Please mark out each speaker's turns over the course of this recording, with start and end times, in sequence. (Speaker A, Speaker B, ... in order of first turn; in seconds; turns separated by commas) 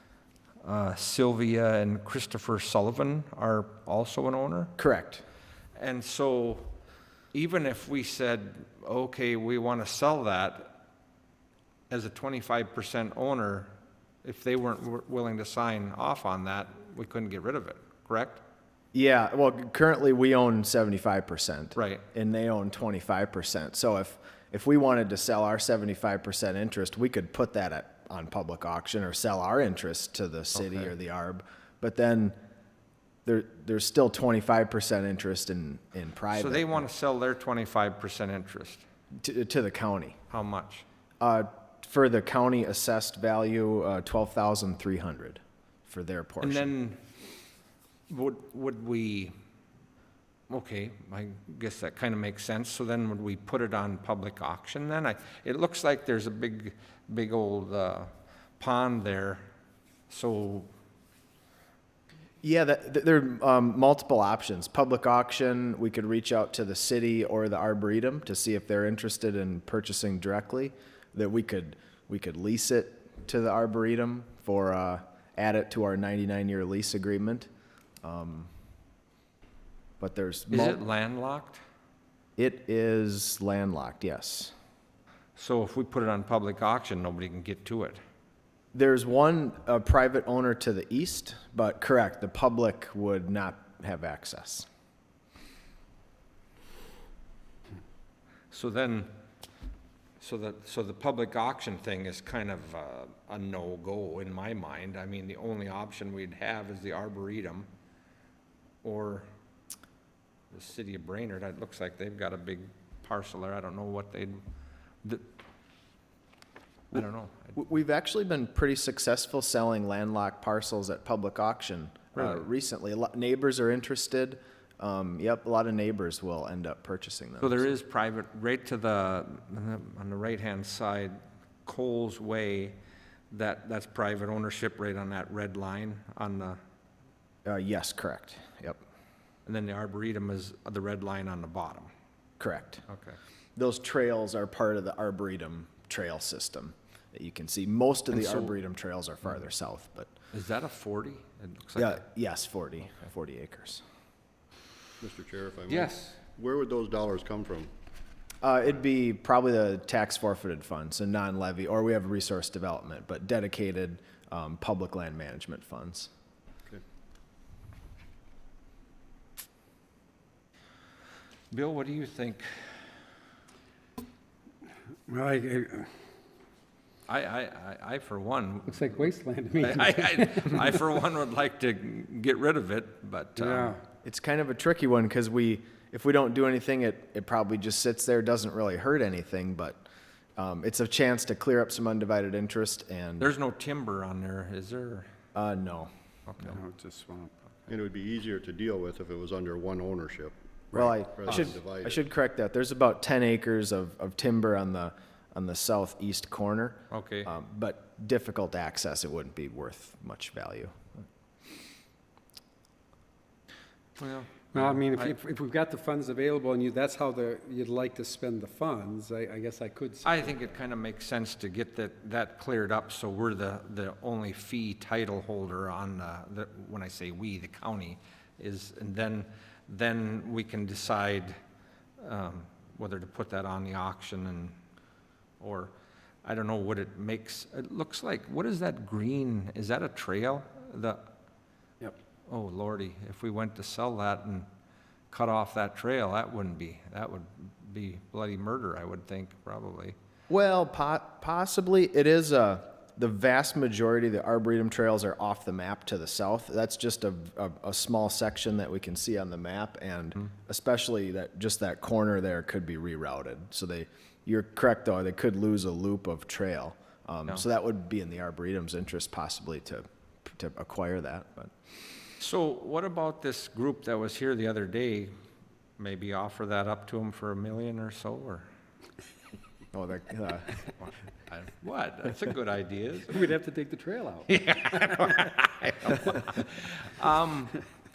Speaker A: 0.6-4.7, Speaker B: 4.8-5.2, Speaker A: 5.8-6.7, Speaker A: 7.3-10.7, Speaker A: 11.9-13.7, Speaker A: 14.2-18.4, Speaker B: 18.9-32.4, Speaker A: 21.8-22.1, Speaker A: 30.6-30.9, Speaker B: 33.2-36.9, Speaker A: 36.3-38.8, Speaker B: 39.1-40.2, Speaker A: 40.3-40.9, Speaker B: 41.2-46.7, Speaker A: 46.4-47.0, Speaker A: 48.1-49.3, Speaker A: 50.5-59.5, Speaker A: 60.1-60.7, Speaker B: 62.4-77.5, Speaker B: 78.0-78.5, Speaker B: 80.0-80.8, Speaker A: 80.5-81.6, Speaker B: 82.4-84.5, Speaker A: 85.4-88.0, Speaker B: 88.7-94.7, Speaker A: 98.5-99.1, Speaker A: 100.2-107.7, Speaker A: 108.8-109.3, Speaker A: 110.5-114.4, Speaker A: 116.9-117.5, Speaker B: 117.5-127.7, Speaker A: 122.2-122.4, Speaker A: 127.4-132.8, Speaker A: 133.3-136.6, Speaker B: 137.4-138.8, Speaker A: 139.5-141.9, Speaker B: 142.4-142.8, Speaker A: 142.9-143.2, Speaker B: 143.6-150.1, Speaker A: 148.2-148.5, Speaker A: 150.3-152.0, Speaker B: 151.8-153.8, Speaker C: 155.0-157.7, Speaker A: 155.7-156.2, Speaker B: 158.4-166.1, Speaker A: 171.5-172.5, Speaker D: 175.1-175.9, Speaker A: 177.1-183.8, Speaker D: 178.7-180.6, Speaker D: 183.4-183.8, Speaker B: 184.0-189.9, Speaker B: 190.4-193.3, Speaker A: 193.2-195.1, Speaker B: 195.3-195.9, Speaker A: 196.3-196.6, Speaker D: 196.6-197.3, Speaker C: 197.7-202.0, Speaker B: 200.7-210.9, Speaker A: 206.9-207.3, Speaker A: 214.0-215.2, Speaker D: 214.5-220.4, Speaker A: 220.0-231.4, Speaker A: 232.0-234.6, Speaker A: 235.4-235.7, Speaker A: 236.2-241.1, Speaker A: 242.3-244.5, Speaker A: 245.1-250.0, Speaker B: 250.3-271.5, Speaker A: 272.2-275.1, Speaker A: 275.8-278.5, Speaker B: 279.7-280.5, Speaker A: 281.3-283.3, Speaker D: 283.1-284.4, Speaker A: 284.3-287.6